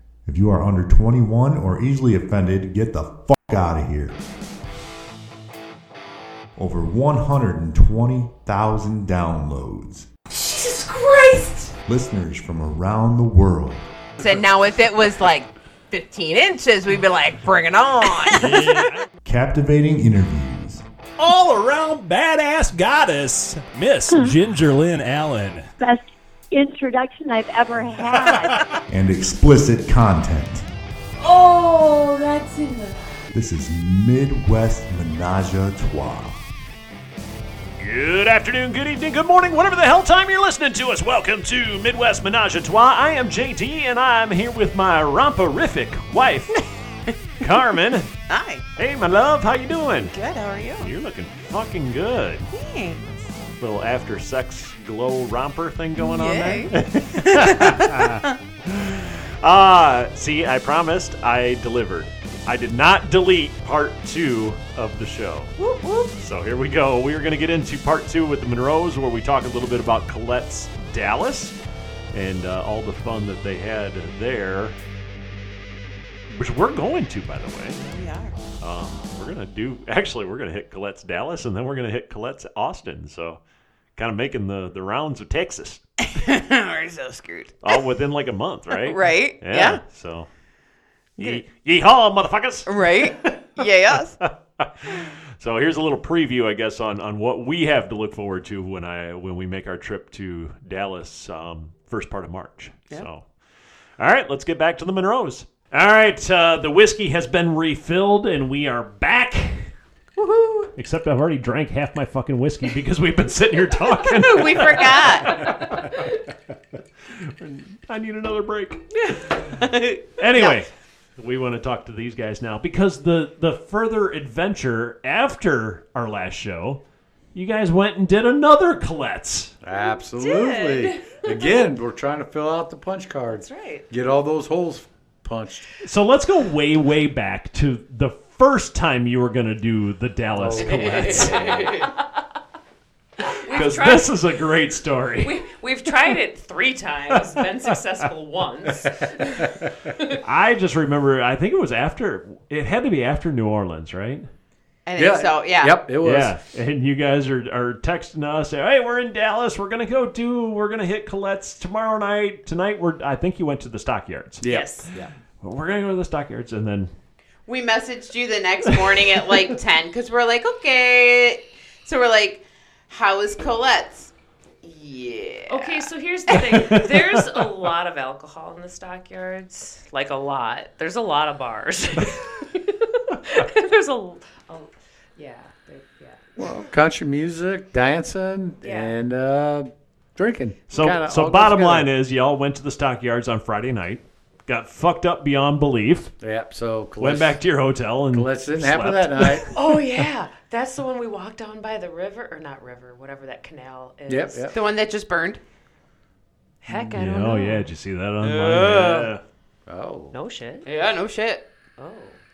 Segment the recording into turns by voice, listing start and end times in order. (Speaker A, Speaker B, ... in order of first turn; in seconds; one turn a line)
Speaker A: 0.3-4.2
Speaker A: 6.6-10.1
Speaker B: 10.4-11.3
Speaker C: 10.6-11.7
Speaker A: 11.9-13.9
Speaker C: 14.2-18.9
Speaker D: 18.3-19.1
Speaker A: 19.2-20.8
Speaker D: 21.2-25.7
Speaker E: 25.8-28.7
Speaker D: 28.3-28.6
Speaker A: 28.9-30.7
Speaker C: 31.2-33.0
Speaker A: 33.3-36.4
Speaker D: 37.8-46.7
Speaker D: 47.4-48.1
Speaker C: 48.3-48.6
Speaker D: 48.8-50.2
Speaker C: 50.1-50.9
Speaker D: 50.8-52.5
Speaker C: 52.5-53.3
Speaker D: 53.6-65.6
Speaker C: 56.0-56.7
Speaker C: 57.2-58.3
Speaker C: 65.6-66.1
Speaker D: 66.1-71.6
Speaker D: 72.1-74.8
Speaker D: 76.3-77.8
Speaker C: 77.8-78.4
Speaker D: 78.6-83.4
Speaker D: 84.0-85.8
Speaker C: 86.1-87.8
Speaker D: 87.6-90.3
Speaker C: 88.7-89.8
Speaker D: 91.2-93.3
Speaker C: 92.7-94.2
Speaker D: 93.9-103.3
Speaker D: 104.0-109.7
Speaker C: 110.2-110.7
Speaker D: 110.8-116.1
Speaker C: 114.1-115.6
Speaker D: 117.1-119.5
Speaker C: 119.1-120.6
Speaker D: 120.2-126.8
Speaker D: 127.3-129.6
Speaker F: 129.6-135.7
Speaker B: 130.1-131.6
Speaker B: 133.3-133.9
Speaker D: 135.8-141.7
Speaker F: 140.3-141.8
Speaker C: 140.7-141.9
Speaker B: 143.2-144.2
Speaker D: 143.5-145.4
Speaker B: 145.2-150.2
Speaker F: 149.2-149.9
Speaker D: 150.2-154.3
Speaker C: 154.9-155.8
Speaker F: 155.0-156.4
Speaker D: 156.0-164.4
Speaker F: 164.4-165.1
Speaker B: 164.4-164.9
Speaker D: 165.4-166.9
Speaker C: 167.5-176.9
Speaker B: 175.5-186.4
Speaker D: 176.7-177.1
Speaker F: 186.4-191.9
Speaker B: 188.6-189.0
Speaker D: 190.7-196.1
Speaker F: 196.2-197.4
Speaker D: 197.0-199.5
Speaker F: 198.1-199.5
Speaker B: 199.5-204.5
Speaker F: 204.1-204.6
Speaker C: 204.5-205.4
Speaker B: 206.6-207.7
Speaker D: 206.7-209.2
Speaker C: 208.2-209.1
Speaker F: 209.7-210.1
Speaker B: 210.1-210.7
Speaker C: 210.7-211.4
Speaker B: 211.8-212.2